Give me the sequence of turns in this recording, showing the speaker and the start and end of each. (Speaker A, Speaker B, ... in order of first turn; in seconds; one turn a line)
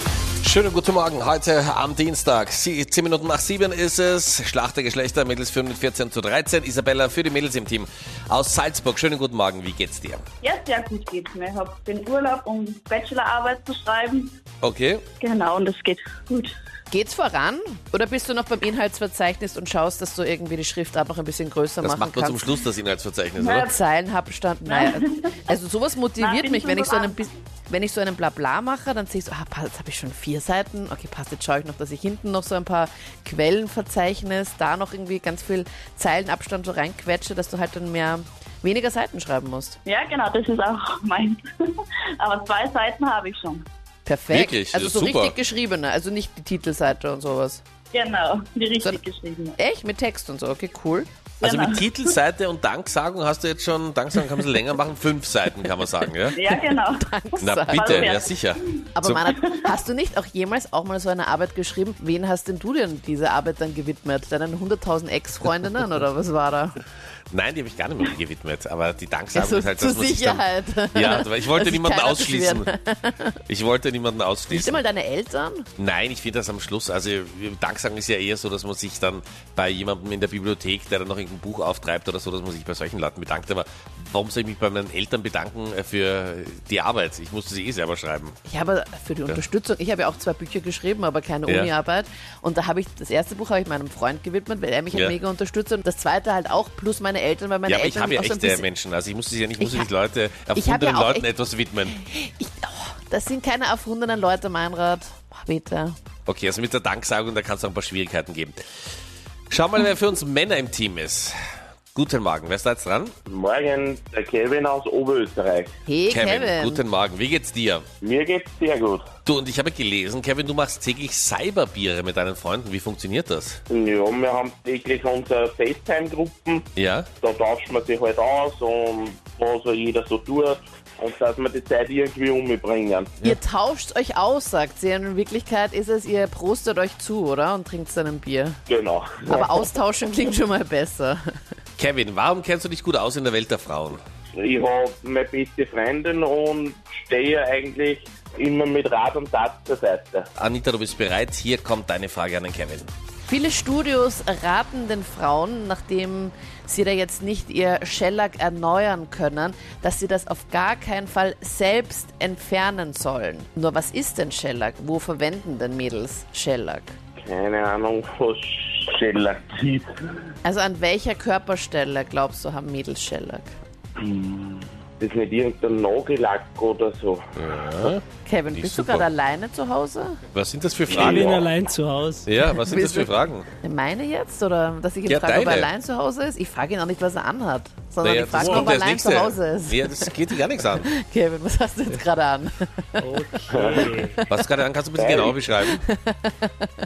Speaker A: 0.4-10.2
Speaker B: 10.4-14.3
Speaker A: 14.6-15.1
Speaker B: 15.2-16.5
Speaker C: 16.9-22.5
Speaker A: 21.8-23.7
Speaker B: 23.4-23.7
Speaker C: 23.6-39.8
Speaker B: 24.7-25.6
Speaker B: 26.2-27.3
Speaker B: 39.9-43.7
Speaker C: 44.0-47.6
Speaker A: 44.3-45.4
Speaker B: 47.9-49.6
Speaker C: 49.6-51.1
Speaker B: 51.4-52.1
Speaker A: 51.4-56.4
Speaker B: 56.3-57.1
Speaker C: 56.5-58.1
Speaker A: 57.4-59.2
Speaker B: 57.7-58.3
Speaker C: 59.0-66.8
Speaker B: 59.4-59.7
Speaker A: 67.3-72.7
Speaker C: 69.3-73.4
Speaker A: 73.5-74.8
Speaker C: 74.5-75.7
Speaker A: 75.8-88.4
Speaker C: 88.5-98.7
Speaker A: 97.7-102.0
Speaker C: 99.6-99.9
Speaker C: 100.5-101.3
Speaker C: 101.8-106.0
Speaker A: 106.3-108.6
Speaker A: 109.5-111.4
Speaker A: 112.0-113.1
Speaker D: 113.3-115.7
Speaker C: 115.9-116.8
Speaker A: 116.1-117.9
Speaker D: 118.0-119.0
Speaker A: 119.3-123.6
Speaker D: 123.7-126.7
Speaker A: 126.8-127.1
Speaker D: 127.2-133.2
Speaker C: 133.2-138.6
Speaker D: 138.7-139.6
Speaker C: 139.2-141.2
Speaker A: 141.8-144.0
Speaker D: 144.4-150.3
Speaker A: 150.4-152.9
Speaker C: 153.3-166.9
Speaker D: 167.2-169.9
Speaker C: 170.4-173.5
Speaker D: 174.0-177.3
Speaker A: 177.4-179.1
Speaker C: 178.2-180.2
Speaker A: 180.3-181.5
Speaker E: 180.9-182.3
Speaker A: 182.3-183.5
Speaker C: 182.5-190.2
Speaker A: 185.1-185.7
Speaker A: 188.0-190.9
Speaker E: 188.4-188.7
Speaker C: 190.8-194.2
Speaker E: 193.0-194.2
Speaker D: 193.5-193.9
Speaker A: 194.3-195.8
Speaker D: 195.0-195.4
Speaker C: 195.6-196.7